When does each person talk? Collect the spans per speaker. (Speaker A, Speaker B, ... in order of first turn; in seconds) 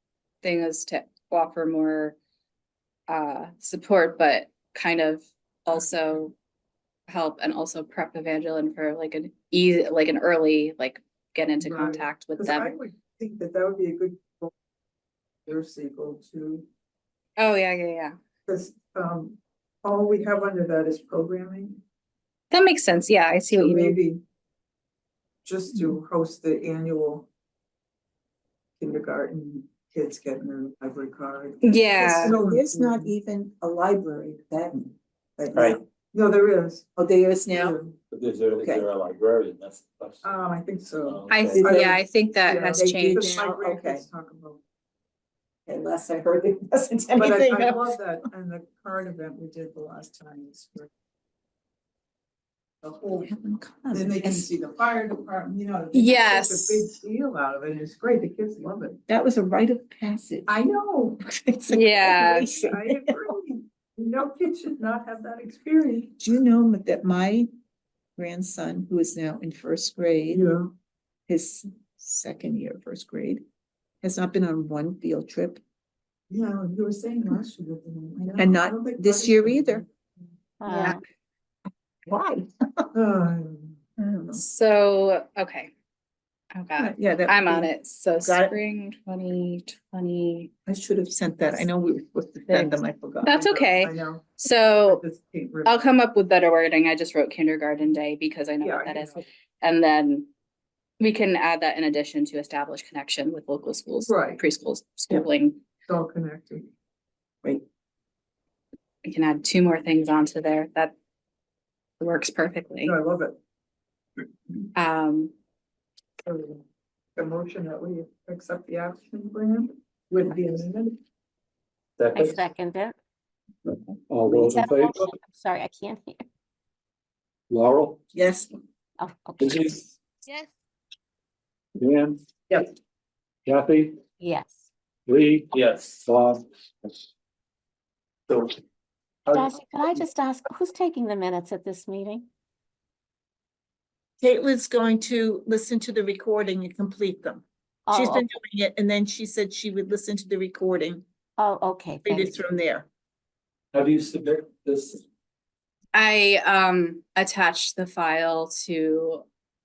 Speaker A: 0.4-2.2, 3.1-6.3, 7.1-12.7, 17.4-18.1, 22.5-24.0, 31.6-32.4, 41.3-43.5, 55.9-56.9, 61.7-62.5, 80.7-81.0, 84.3-85.7, 86.5-90.5, 92.5-95.0, 95.7-100.3, 101.0-105.6, 109.0-111.0, 112.0-113.0, 114.8-115.3, 155.9-159.2
Speaker B: 11.6-14.5, 15.5-16.7, 18.5-21.8, 23.5-24.2, 25.4-27.3, 28.8-33.1, 35.4-36.9, 37.5-38.0, 40.2-44.6, 47.2-50.9, 52.8-53.2, 53.9-59.0, 60.5-61.2, 62.3-66.1, 70.3-70.7, 76.3-80.3, 82.9-83.8, 93.4-95.9, 98.6-99.2, 104.1-104.4, 105.9-106.7, 112.8-113.4, 116.2-116.6, 117.2-121.0
Speaker C: 32.2-35.0, 35.5-35.8, 37.0-37.8, 38.5-38.9, 41.6-42.0, 42.8-44.1, 45.7-47.9, 53.1-54.5, 59.1-60.5, 61.3-63.2, 66.2-67.5, 68.2-70.5, 71.3-73.4, 74.0-75.6, 78.4-79.8, 82.1-82.9, 84.0-84.4, 86.8-88.6, 90.7-93.5, 128.1-128.5, 144.2-151.1, 152.1-152.9
Speaker D: 38.1-40.2, 41.0-41.7, 122.0-122.4, 124.1-125.1, 127.5-128.0, 129.4-129.9, 131.8-132.2, 133.5-134.0, 135.1-137.1, 138.3-138.6, 139.3-140.0, 153.7-155.0
Speaker E: 80.6-81.0, 120.2-120.5, 122.1-123.0, 124.3-126.2, 129.0-129.7, 134.2-134.7, 139.3-142.3, 147.9-148.2, 151.4-152.4